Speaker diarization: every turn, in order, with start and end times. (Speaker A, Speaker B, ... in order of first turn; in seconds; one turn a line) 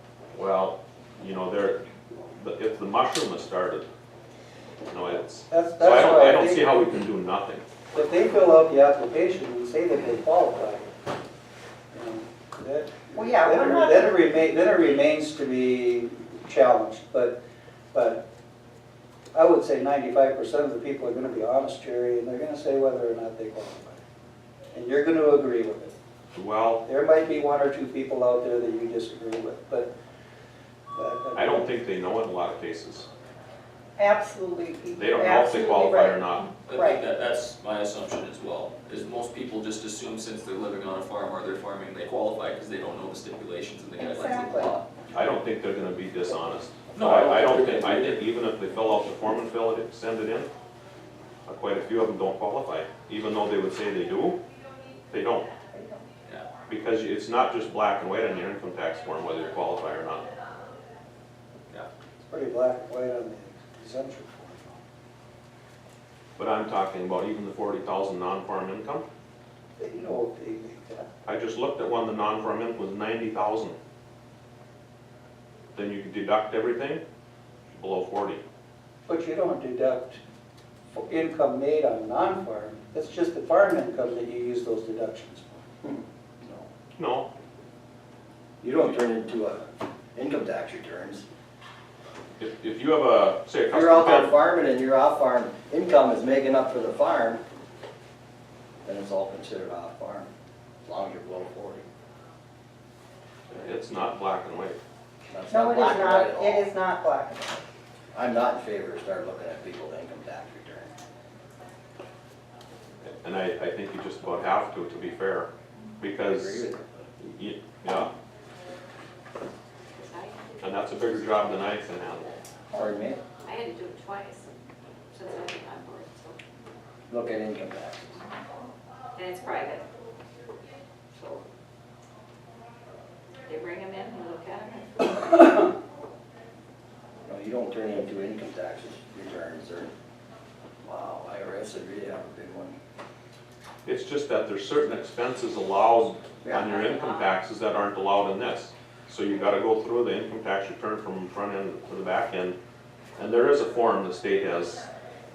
Speaker A: 0.3-3.9
Speaker A: 4.9-7.6
Speaker B: 5.5-6.8
Speaker B: 7.9-10.9
Speaker B: 11.9-17.4
Speaker C: 13.1-14.2
Speaker B: 17.9-18.2
Speaker B: 19.3-24.0
Speaker B: 24.7-25.9
Speaker A: 26.3-26.8
Speaker B: 26.8-29.9
Speaker B: 30.9-31.7
Speaker A: 31.4-33.1
Speaker C: 34.0-37.0
Speaker A: 34.9-36.5
Speaker D: 36.6-44.8
Speaker C: 44.0-44.7
Speaker A: 45.1-50.5
Speaker D: 46.9-48.2
Speaker A: 51.5-54.4
Speaker A: 55.1-55.5
Speaker C: 55.7-56.0
Speaker A: 56.7-60.3
Speaker B: 62.2-64.8
Speaker A: 66.3-69.0
Speaker B: 69.8-71.1
Speaker A: 71.2-73.8
Speaker A: 75.7-77.0
Speaker A: 77.7-78.4
Speaker B: 79.0-80.2
Speaker B: 80.9-85.6
Speaker E: 85.8-86.7
Speaker A: 87.0-87.3
Speaker E: 88.6-91.2
Speaker A: 92.4-94.3
Speaker E: 93.7-97.4
Speaker E: 98.8-100.3
Speaker E: 100.8-101.8
Speaker A: 103.5-104.8
Speaker E: 105.2-106.7
Speaker C: 105.5-107.6
Speaker E: 108.1-110.9
Speaker A: 113.0-115.5
Speaker A: 116.0-116.7
Speaker E: 116.2-117.1
Speaker A: 117.2-118.1
Speaker F: 119.9-120.8
Speaker A: 120.6-122.3
Speaker E: 122.7-123.2
Speaker F: 123.4-124.5
Speaker F: 125.1-126.4
Speaker E: 127.1-128.2
Speaker F: 129.1-129.8
Speaker F: 131.1-131.4
Speaker F: 133.4-135.7
Speaker E: 137.2-139.9
Speaker E: 140.8-142.8
Speaker A: 143.8-152.6
Speaker E: 146.4-146.7
Speaker A: 153.2-154.8